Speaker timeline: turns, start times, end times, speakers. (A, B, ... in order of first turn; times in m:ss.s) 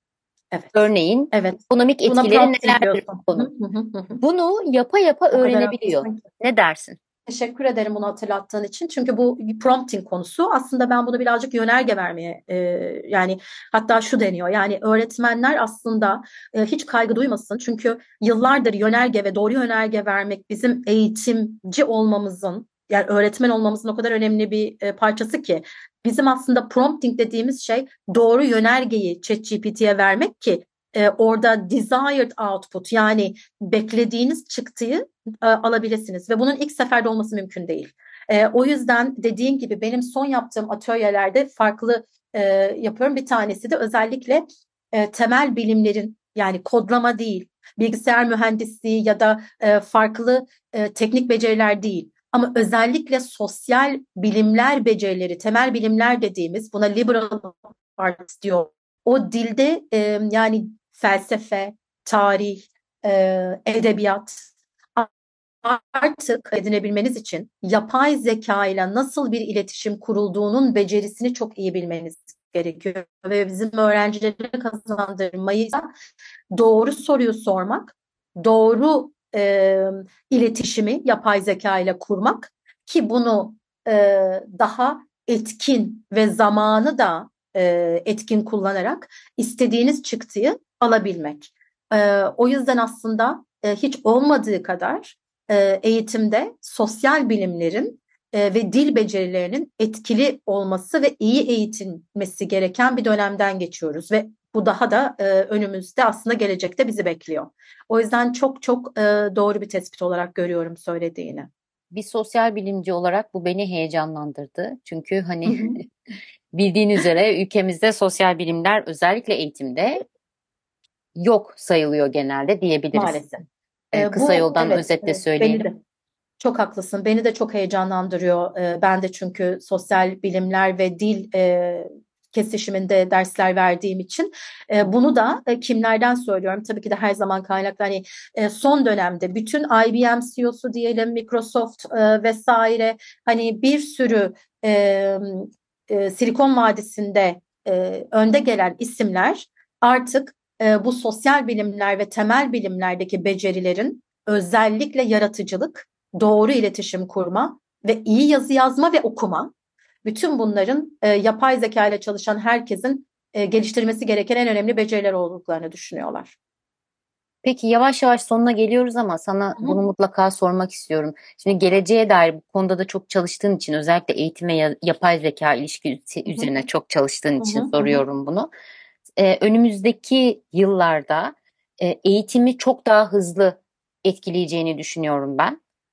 0:00.5-0:04.2 A
0:00.7-0:03.5 B
0:04.2-0:07.0 B
0:05.3-0:06.2 A
0:07.3-1:05.1 A
1:05.6-1:15.9 A
1:16.5-1:51.5 A
1:51.9-1:55.8 B
1:55.5-1:55.8 A
1:56.5-2:00.0 B
2:01.2-2:03.2 B
2:02.9-2:05.8 A
2:03.9-2:05.6 B
2:06.4-2:39.5 A
2:40.0-2:46.4 A
2:47.4-2:58.5 B
2:57.4-2:58.0 A
2:59.2-3:05.6 B